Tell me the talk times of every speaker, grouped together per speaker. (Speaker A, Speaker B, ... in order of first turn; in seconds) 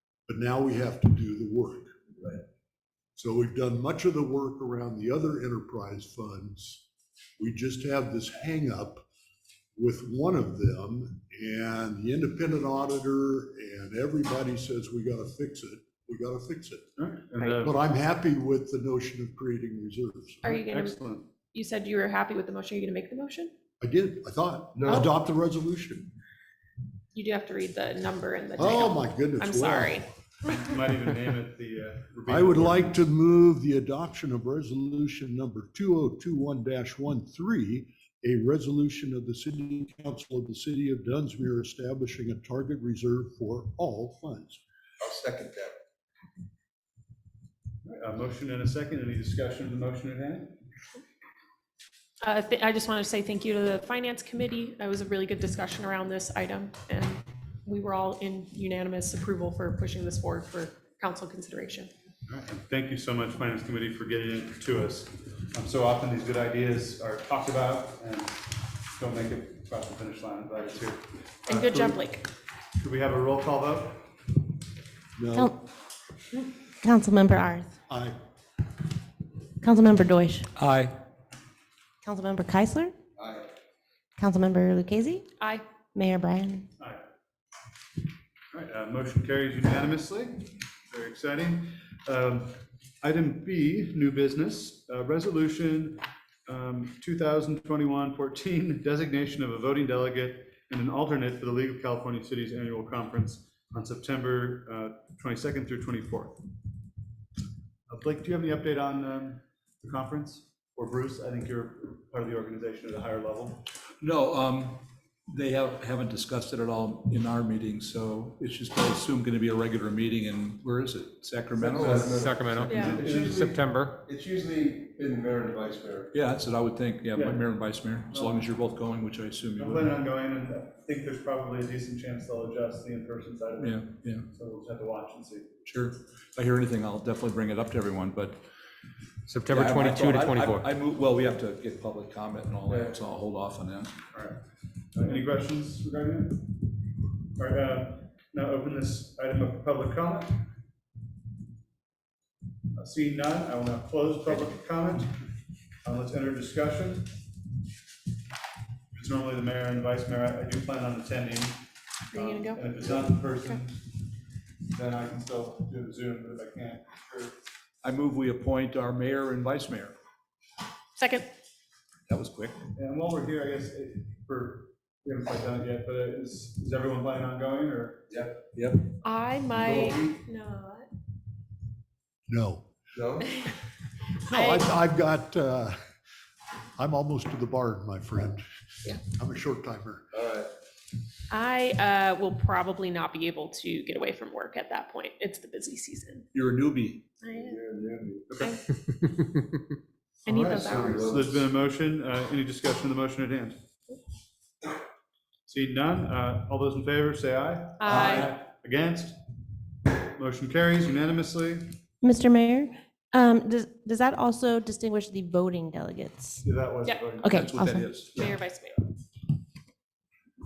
Speaker A: 0.3-1.9, 3.2-6.8, 7.4-9.1, 9.8-16.9, 17.6-20.5, 23.8-26.1, 28.6-30.1, 32.3-44.6, 75.2-75.6, 77.9-78.2, 182.3-182.7, 184.2-185.8, 186.8-188.4, 189.0-190.1
Speaker B: 17.0-17.7, 20.5-21.3, 30.4-33.1, 47.9-50.6, 62.3-72.0, 72.8-74.1, 86.8-87.0, 88.5-106.4, 107.9-113.7, 127.1-127.4, 128.1-128.4, 129.6-135.5, 144.1-144.4, 144.9-146.5, 147.4-150.5, 152.7-155.2, 155.8-157.2, 158.9-163.9, 164.7-167.3, 172.8-178.1, 198.3-198.6, 201.0-203.6, 205.5-209.2, 210.0-211.8, 216.4-217.4
Speaker C: 20.4-23.5, 27.1-30.1, 52.2-61.9, 71.5-72.2, 85.4-85.7, 122.7-123.0, 162.1-162.7, 171.0-171.3, 179.0-180.9, 184.3-184.7, 191.3-196.3, 197.2-197.6, 200.2-201.0, 207.8-208.3, 218.2-218.9
Speaker D: 24.8-25.1, 45.0-45.8, 83.2-83.5, 121.5-126.1, 142.7-142.9, 178.1-178.4, 179.5-180.2, 182.9-183.4, 190.1-190.5, 197.3-198.2, 200.3-201.5
Speaker E: 76.8-77.8, 79.6-80.5, 82.0-82.9, 84.2-85.2, 85.9-86.7, 212.0-216.4, 217.2-217.9
Speaker F: 80.6-81.0, 114.0-123.1, 126.1-129.9, 133.6-134.3, 135.7-138.4, 139.5-144.0, 167.8-169.9, 172.1-172.6, 178.5-178.9, 196.3-197.1, 207.8-208.3, 217.3-218.4
Speaker G: 121.8-124.0, 139.3-140.8